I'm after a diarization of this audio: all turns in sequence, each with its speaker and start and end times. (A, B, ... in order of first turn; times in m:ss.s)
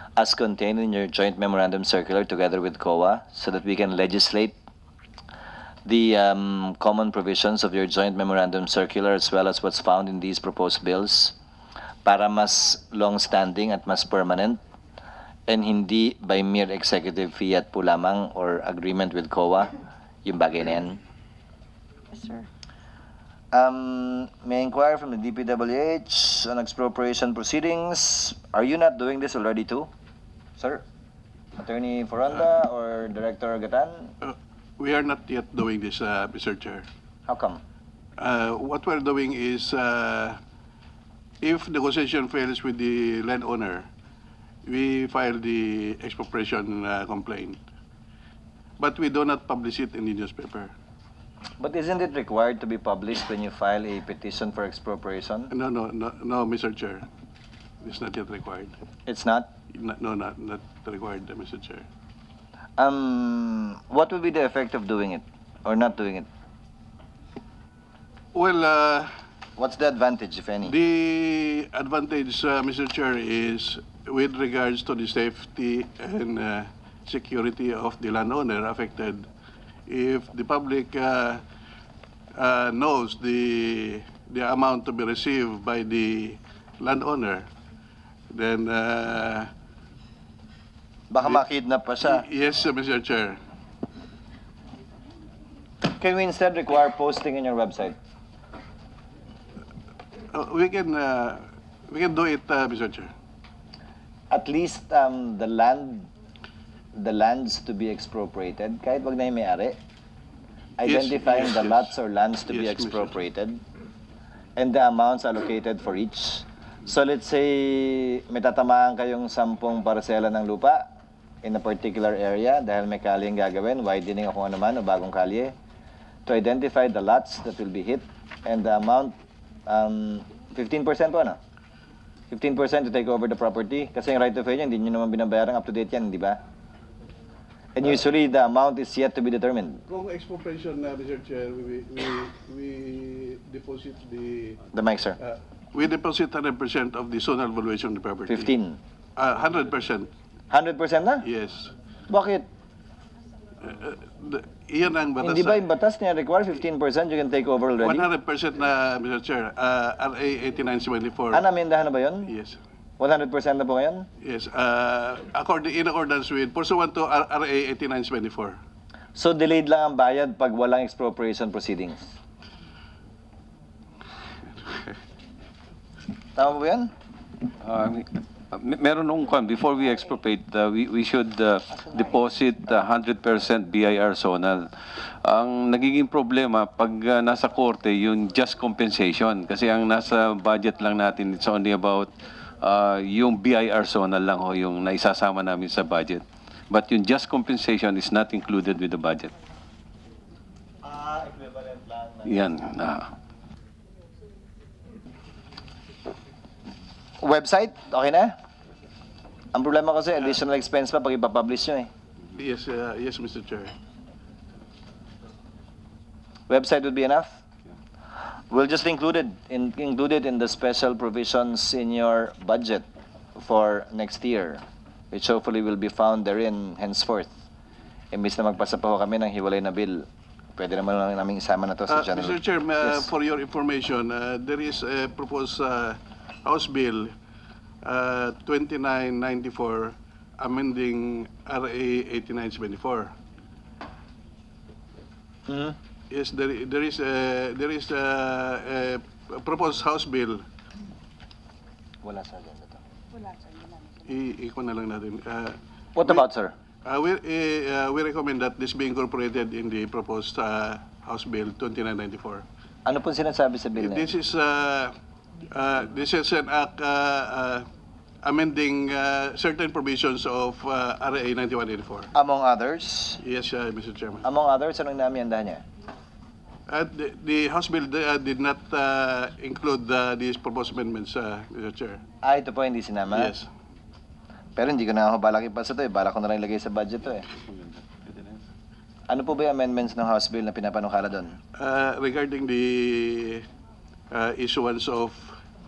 0:00.2-0:04.6 A
0:05.9-0:11.4 A
0:12.0-0:14.6 A
0:15.5-0:19.7 A
0:20.2-0:21.0 A
0:23.5-0:29.9 A
0:30.6-0:30.8 A
0:31.6-0:34.1 A
0:34.2-0:36.8 B
0:37.3-0:37.6 A
0:38.2-0:40.4 B
0:41.4-0:43.9 B
0:44.6-0:47.6 B
0:48.8-0:50.7 B
0:51.6-0:55.5 A
0:55.5-0:57.0 B
0:57.8-0:58.7 B
0:59.1-0:59.5 A
0:59.7-1:01.8 B
1:02.8-1:06.3 A
1:08.3-1:09.1 B
1:09.6-1:10.8 A
1:10.7-1:19.2 B
1:19.9-1:21.4 B
1:22.4-1:27.5 B
1:28.3-1:29.5 B
1:31.1-1:32.3 A
1:32.0-1:33.4 B
1:36.0-1:38.0 A
1:40.3-1:43.1 B
1:44.3-1:46.1 A
1:47.0-1:49.8 A
1:50.8-1:53.6 A
1:50.8-1:52.0 B
1:52.5-1:53.1 B
1:54.6-2:00.9 A
2:01.4-2:05.5 A
2:06.3-2:09.2 A
2:09.7-2:11.4 A
2:12.3-2:16.4 A
2:17.8-2:19.8 A
2:19.9-2:24.6 B
2:24.7-2:25.2 A
2:25.2-2:28.5 B
2:28.3-2:28.8 A
2:29.2-2:30.1 B
2:30.5-2:31.2 A
2:31.2-2:31.7 B
2:32.1-2:32.5 A
2:33.6-2:35.6 B
2:35.2-2:38.1 A
2:37.8-2:41.4 B
2:41.3-2:42.3 A
2:42.3-2:42.6 B
2:43.0-2:44.1 A
2:44.2-2:48.6 B
2:49.2-2:52.1 A
2:56.4-2:56.9 A
2:57.6-3:19.3 C
3:20.8-3:22.4 A
3:22.2-3:23.1 C
3:27.2-3:28.3 A
3:29.5-3:31.9 A
3:32.3-3:33.7 B
3:36.5-3:37.4 A
3:38.5-3:42.8 A
3:43.4-3:47.3 A
3:48.1-3:53.1 A
3:51.9-3:57.1 B
3:57.8-4:03.1 B
4:05.5-4:05.8 A
4:06.1-4:10.4 B
4:12.0-4:12.8 A
4:14.1-4:16.2 B
4:16.0-4:16.5 A
4:16.8-4:22.4 B
4:22.9-4:24.1 A
4:23.8-4:24.9 B
4:25.5-4:27.6 B
4:28.2-4:32.1 B
4:32.1-4:33.2 A
4:33.2-4:34.2 B
4:34.2-4:35.6 A
4:36.7-4:42.0 B
4:42.2-4:43.3 A
4:43.1-4:43.5 B
4:44.6-4:47.3 A
4:47.7-4:48.3 C
4:49.1-4:51.4 A
4:51.6-4:53.4 B
4:54.1-4:55.3 B